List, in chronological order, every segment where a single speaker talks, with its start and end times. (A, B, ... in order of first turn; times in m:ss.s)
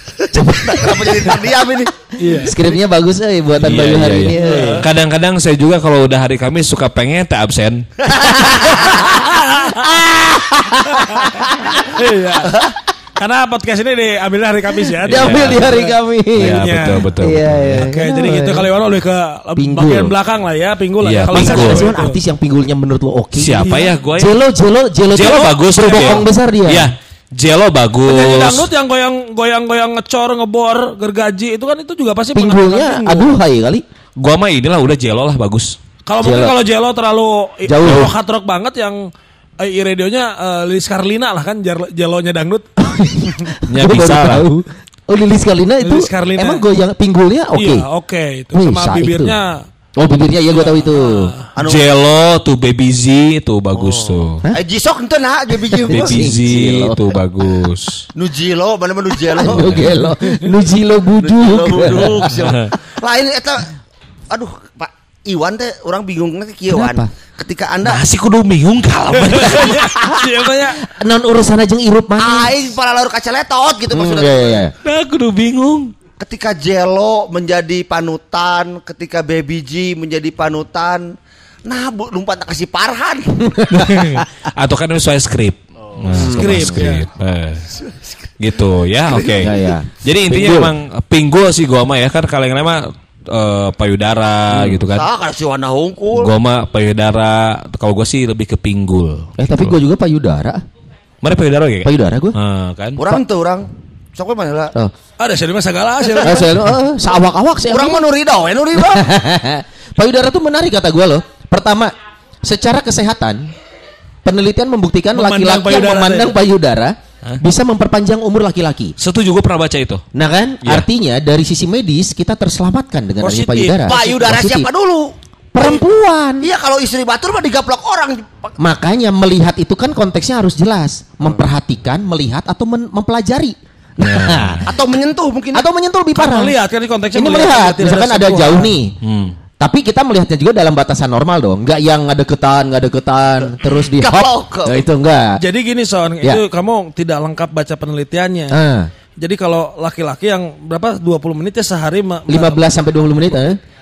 0:00.3-0:01.4 A
0:00.4-0:01.9 B
0:02.2-0:02.6 C
0:02.4-0:04.8 A
0:03.6-0:08.6 D
0:04.4-0:04.8 C
0:08.0-0:09.1 B
0:08.8-0:09.0 A
0:09.0-0:09.9 C
0:09.7-0:11.9 A
0:10.9-0:12.5 C
0:13.2-0:17.1 C
0:15.0-0:18.7 A
0:15.1-0:15.7 D
0:16.4-0:17.8 D
0:17.7-0:22.2 C
0:19.6-0:20.2 A
0:21.0-0:21.9 D
0:21.3-0:26.9 A
0:23.4-0:24.4 D
0:23.6-0:24.0 C
0:25.1-0:28.7 D
0:25.2-0:26.2 C
0:28.0-0:33.3 C
0:32.3-0:33.8 A
0:34.2-0:35.7 D
0:36.1-0:39.0 C
0:36.2-0:36.6 A
0:37.7-0:38.1 A
0:37.9-0:38.1 D
0:39.6-0:42.7 C
0:42.8-0:47.9 A
0:43.7-0:44.5 D
0:45.8-0:46.6 C
0:47.5-0:49.6 C
0:48.5-0:49.4 A
0:50.0-0:51.3 A
0:50.5-0:51.5 C
0:51.6-0:51.8 B
0:51.6-0:54.4 D
0:53.8-0:56.3 B
0:55.7-0:57.0 A
0:55.9-0:58.0 D
0:58.2-0:59.9 B
0:59.3-1:02.3 A
0:59.5-0:59.9 D
1:01.2-1:03.8 B
1:01.9-1:02.7 D
1:04.3-1:08.0 B
1:06.7-1:07.1 A
1:07.8-1:09.9 D
1:09.2-1:10.8 C
1:10.8-1:12.5 A
1:12.2-1:14.6 B
1:13.9-1:14.7 A
1:14.8-1:15.9 D
1:16.2-1:21.1 B
1:21.6-1:23.5 B
1:23.4-1:24.2 A
1:23.7-1:27.7 D
1:26.1-1:26.9 A
1:26.2-1:27.1 C
1:27.7-1:28.3 B
1:28.4-1:35.1 D
1:29.1-1:29.5 B
1:29.4-1:30.7 A
1:34.5-1:34.8 A
1:34.9-1:36.3 B
1:36.2-1:39.8 D
1:39.4-1:40.6 A
1:41.2-1:43.0 D
1:41.8-1:42.4 A
1:43.0-1:44.7 B
1:45.2-1:46.5 C
1:46.1-1:46.4 B
1:46.2-1:48.1 A
1:47.7-1:49.1 B
1:48.8-1:53.5 A
1:54.2-1:59.0 A
1:55.1-1:56.3 C
1:59.0-2:00.0 D
2:00.1-2:04.7 A
2:03.2-2:04.1 C
2:03.8-2:05.8 B
2:05.5-2:06.5 A
2:06.4-2:08.5 B
2:08.6-2:14.7 A
2:14.0-2:14.7 D
2:14.7-2:15.7 B
2:15.5-2:16.6 A
2:16.2-2:18.7 C
2:17.1-2:19.0 A
2:19.0-2:19.4 D
2:19.6-2:25.4 A
2:23.9-2:24.8 B
2:25.4-2:28.6 C
2:28.5-2:28.9 A
2:29.2-2:32.7 C
2:32.3-2:33.6 A